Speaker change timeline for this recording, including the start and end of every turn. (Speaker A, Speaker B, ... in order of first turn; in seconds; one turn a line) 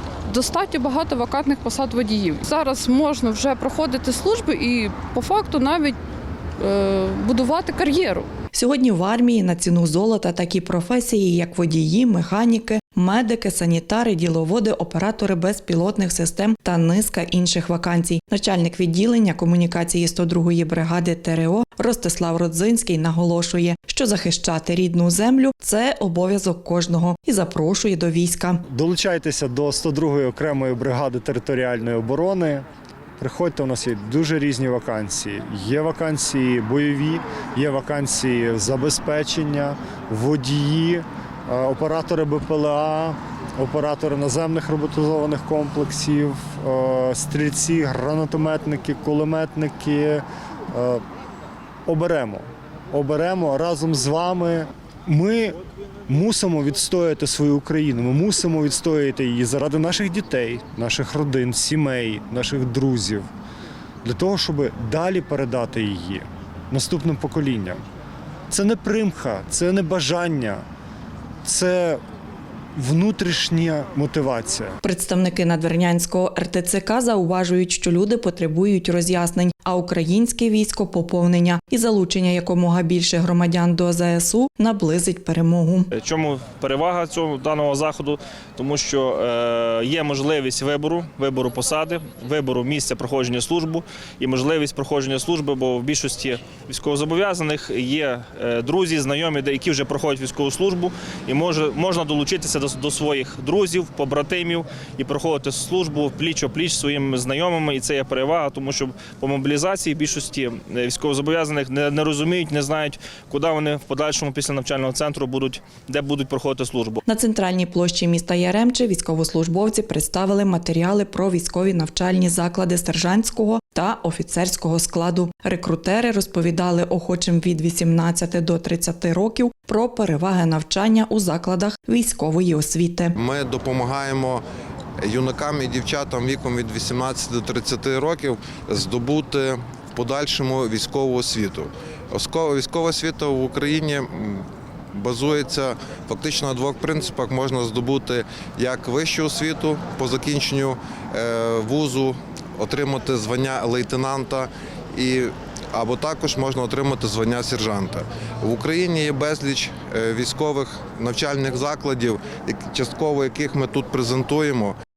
Speaker A: 0.3-6.0
Speaker A: 6.6-8.3
Speaker B: 8.5-28.6
Speaker C: 28.7-32.6
Speaker C: 33.2-51.0
Speaker C: 51.9-63.3
Speaker C: 64.0-67.8
Speaker C: 68.5-70.6
Speaker C: 71.4-72.0
Speaker C: 72.8-74.8
Speaker B: 74.8-85.9
Speaker D: 85.9-117.0
Speaker B: 117.0-133.2
Speaker E: 133.2-134.4
Speaker E: 135.0-164.8